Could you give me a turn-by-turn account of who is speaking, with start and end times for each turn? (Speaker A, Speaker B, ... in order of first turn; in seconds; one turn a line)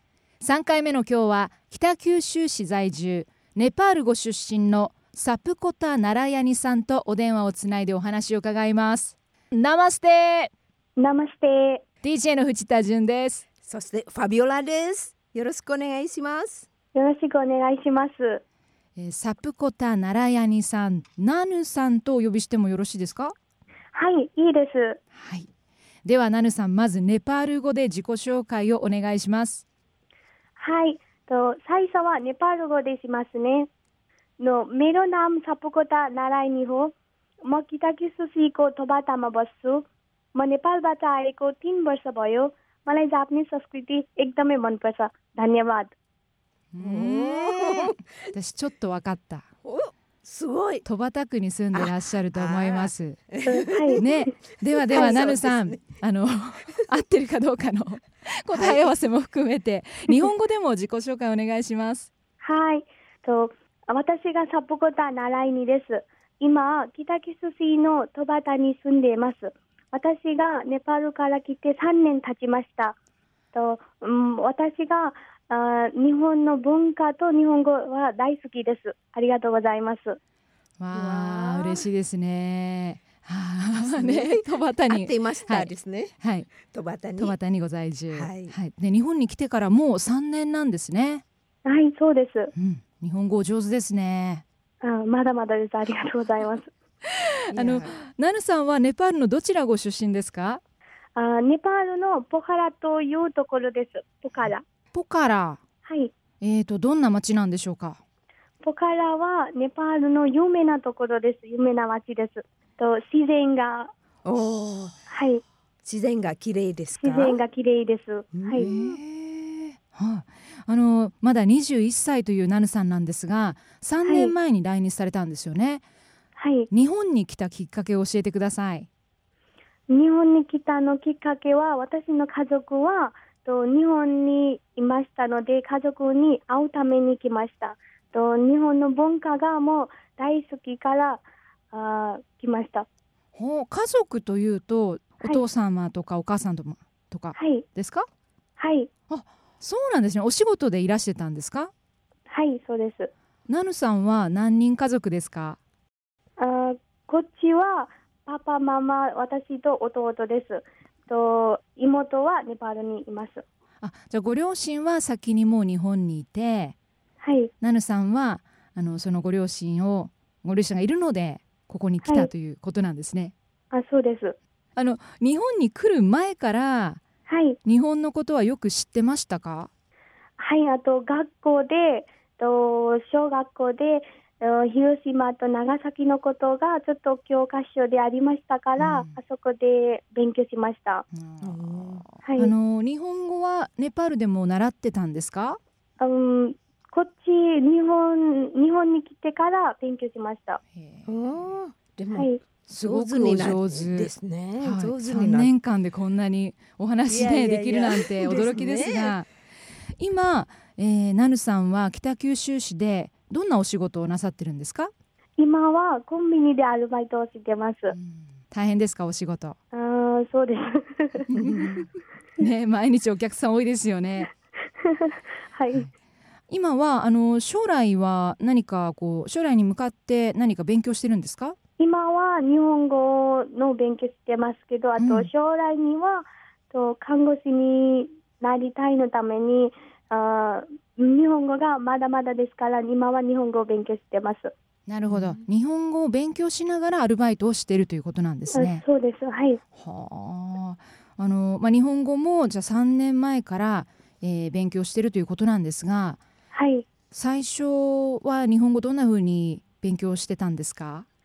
Speaker A: 0.4-10.5
Speaker B: 11.0-11.8
Speaker A: 12.0-13.4
Speaker C: 13.6-16.7
Speaker B: 16.9-18.4
Speaker A: 19.0-23.3
Speaker B: 23.9-25.0
Speaker A: 25.1-25.5
Speaker A: 26.0-29.6
Speaker B: 30.6-33.7
Speaker B: 34.4-45.9
Speaker A: 46.7-49.5
Speaker C: 46.8-48.0
Speaker C: 49.6-50.8
Speaker A: 50.8-53.2
Speaker C: 51.7-54.0
Speaker B: 53.4-54.3
Speaker A: 54.0-62.1
Speaker C: 54.9-55.8
Speaker B: 54.9-55.2
Speaker C: 58.5-58.8
Speaker B: 62.4-73.0
Speaker B: 73.5-80.2
Speaker A: 80.8-86.5
Speaker C: 80.9-81.9
Speaker C: 83.8-86.1
Speaker C: 86.7-87.4
Speaker A: 87.2-91.2
Speaker C: 88.1-88.5
Speaker B: 91.6-92.5
Speaker A: 92.5-94.4
Speaker B: 94.8-96.7
Speaker A: 97.2-100.6
Speaker C: 97.5-97.9
Speaker B: 101.2-104.6
Speaker A: 104.9-105.6
Speaker B: 105.8-106.1
Speaker A: 106.4-108.0
Speaker B: 108.6-113.9
Speaker C: 114.2-115.0
Speaker B: 115.1-115.4
Speaker C: 115.8-117.4
Speaker B: 117.0-118.7
Speaker C: 118.3-119.0
Speaker A: 118.5-125.8
Speaker B: 124.0-124.3
Speaker B: 126.4-126.7
Speaker A: 126.7-128.9
Speaker B: 129.9-142.9
Speaker A: 143.3-148.1
Speaker B: 147.3-147.7
Speaker B: 148.6-148.9
Speaker A: 149.1-151.7
Speaker B: 152.3-153.1
Speaker A: 153.5-155.6
Speaker B: 156.4-163.4
Speaker A: 163.8-166.8
Speaker B: 167.2-167.5
Speaker A: 167.6-173.3
Speaker B: 172.0-172.3
Speaker B: 173.7-174.3
Speaker A: 174.8-177.0
Speaker B: 177.3-177.6
Speaker A: 177.6-179.7
Speaker B: 180.4-191.1
Speaker A: 188.8-189.1
Speaker A: 191.1-195.6
Speaker C: 191.4-192.0
Speaker B: 192.2-192.5
Speaker B: 196.0-200.6
Speaker A: 200.7-201.5
Speaker C: 201.1-205.5
Speaker B: 202.1-202.4
Speaker A: 202.7-209.3
Speaker C: 207.1-209.2
Speaker A: 210.0-214.9
Speaker B: 215.4-217.9
Speaker A: 217.9-219.6
Speaker B: 219.7-221.3
Speaker C: 221.3-221.8
Speaker A: 221.3-221.9
Speaker A: 222.4-224.3
Speaker B: 224.8-225.9
Speaker A: 226.5-231.6
Speaker B: 231.8-244.5
Speaker A: 235.0-235.3
Speaker A: 244.9-248.8
Speaker B: 248.5-249.6
Speaker A: 249.7-256.2
Speaker B: 256.5-256.9
Speaker A: 257.1-261.1